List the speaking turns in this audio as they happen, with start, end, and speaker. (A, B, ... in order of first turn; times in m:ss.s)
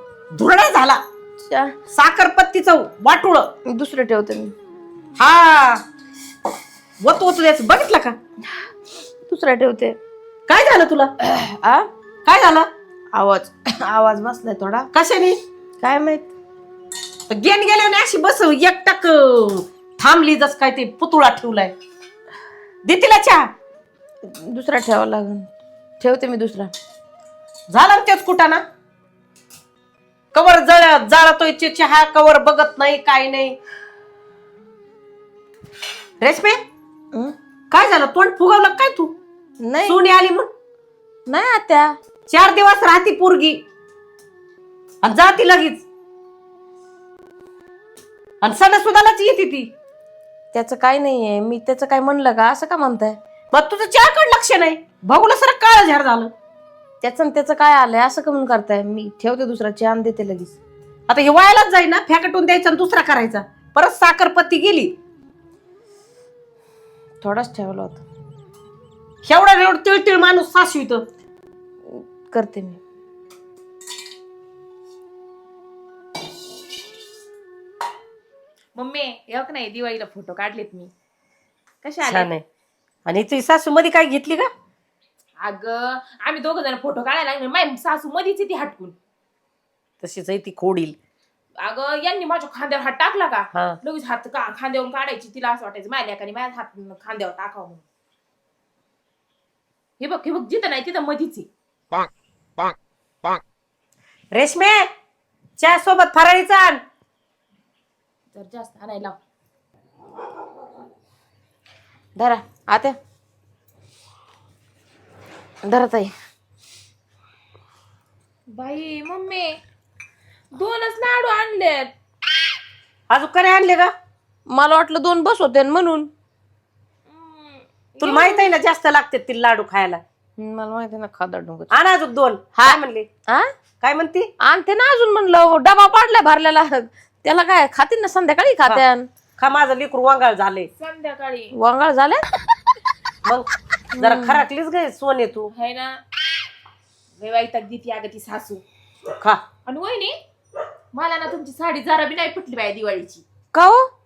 0:00.3-0:01.0 A
0:01.4-0:01.7 B
0:01.9-0:03.5 A
0:03.6-0:04.5 B
0:05.2-0:05.8 A
0:07.0-0:08.2 A
0:09.3-0:10.0 B
0:10.5-0:11.1 A
0:11.2-0:11.9 B
0:12.2-0:12.7 A
0:13.1-0:14.9 B
0:14.9-0:15.4 A
0:15.8-0:16.3 B
0:17.3-0:21.7 A
0:22.8-0:23.5 A
0:24.3-0:25.5 B
0:26.0-0:26.7 B
0:27.7-0:28.6 A
0:30.3-0:33.6 A
0:36.2-0:36.6 A
0:37.7-0:39.2 A
0:39.6-0:40.0 B
0:39.9-0:40.5 A
0:41.3-0:42.0 B
0:42.3-0:43.6 A
0:45.0-0:45.8 A
0:48.4-0:49.7 A
0:50.5-0:53.2 B
0:53.5-0:56.3 A
0:57.0-1:00.6 B
1:01.1-1:04.9 A
1:07.2-1:08.0 B
1:09.2-1:11.0 A
1:11.9-1:12.8 B
1:18.7-1:20.9 C
1:21.8-1:22.3 C
1:22.0-1:22.4 A
1:23.0-1:24.5 A
1:25.4-1:29.0 C
1:30.0-1:31.0 A
1:31.6-1:37.8 C
1:33.5-1:33.8 A
1:40.0-1:41.5 C
1:44.3-1:44.9 A
1:45.6-1:46.8 A
1:48.3-1:49.2 C
1:52.2-1:52.9 B
1:55.6-1:56.1 B
1:58.5-1:59.6 C
2:00.5-2:01.9 C
2:03.1-2:03.9 A
2:04.5-2:06.1 B
2:07.1-2:08.5 C
2:08.0-2:10.0 A
2:10.4-2:11.7 B
2:11.7-2:13.1 A
2:12.6-2:13.5 B
2:13.8-2:14.3 A
2:14.4-2:19.1 B
2:19.4-2:20.7 A
2:20.8-2:21.5 C
2:21.5-2:22.2 B
2:23.2-2:25.5 A
2:23.9-2:24.4 B
2:25.5-2:26.0 C
2:27.2-2:28.6 C
2:29.1-2:29.4 A
2:29.7-2:30.1 C
2:30.9-2:33.2 C
2:33.5-2:33.9 B